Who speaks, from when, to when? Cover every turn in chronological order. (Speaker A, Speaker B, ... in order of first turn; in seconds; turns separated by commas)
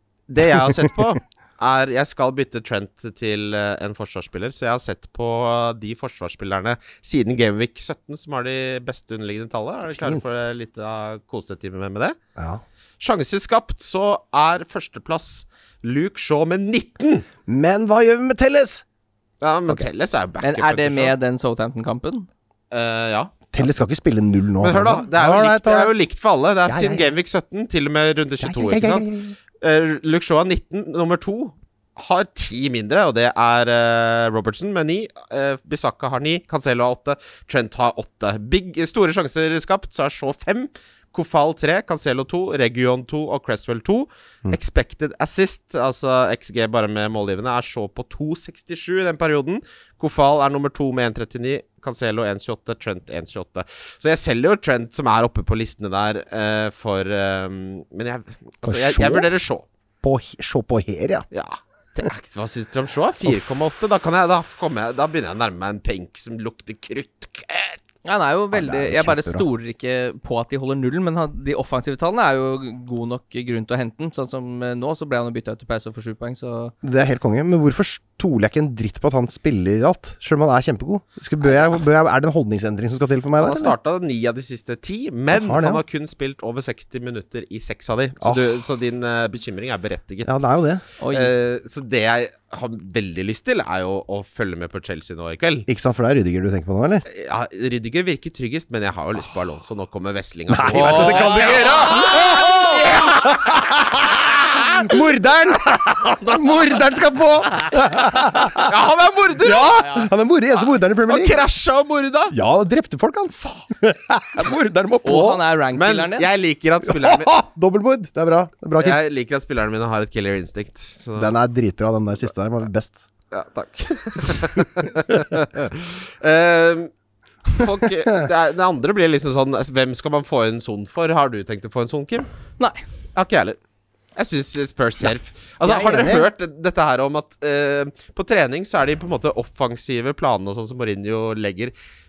Speaker A: 0.3-12.2, Speaker B: 9.9-10.3, Speaker B: 12.4-12.6, Speaker A: 13.0-17.2, Speaker B: 17.5-18.8, Speaker A: 19.4-21.1, Speaker C: 20.4-22.3, Speaker A: 22.7-23.5, Speaker B: 23.5-25.9, Speaker A: 24.6-29.1, Speaker B: 26.6-27.1, Speaker B: 28.4-29.3, Speaker A: 29.6-59.6, Speaker B: 58.6-59.3, Speaker B: 60.0-61.2, Speaker A: 61.3-67.8, Speaker C: 68.0-76.7, Speaker B: 68.5-69.4, Speaker B: 76.8-83.7, Speaker A: 83.4-90.4, Speaker B: 85.3-85.8, Speaker B: 88.2-88.5, Speaker B: 90.2-90.8, Speaker C: 91.0-91.3, Speaker A: 91.1-95.7, Speaker B: 95.7-97.0, Speaker A: 97.1-105.1, Speaker B: 100.5-108.7, Speaker C: 100.7-101.7, Speaker A: 105.6-109.8, Speaker B: 109.4-111.4, Speaker C: 109.7-110.1, Speaker A: 111.0-112.3, Speaker B: 112.3-115.4, Speaker C: 115.0-116.3, Speaker A: 115.7-117.3, Speaker B: 116.8-119.0, Speaker A: 118.8-121.3, Speaker B: 121.2-123.1, Speaker A: 123.3-126.9, Speaker B: 124.3-125.1, Speaker A: 127.5-132.3, Speaker A: 133.1-133.6, Speaker A: 134.2-141.7, Speaker B: 135.6-136.3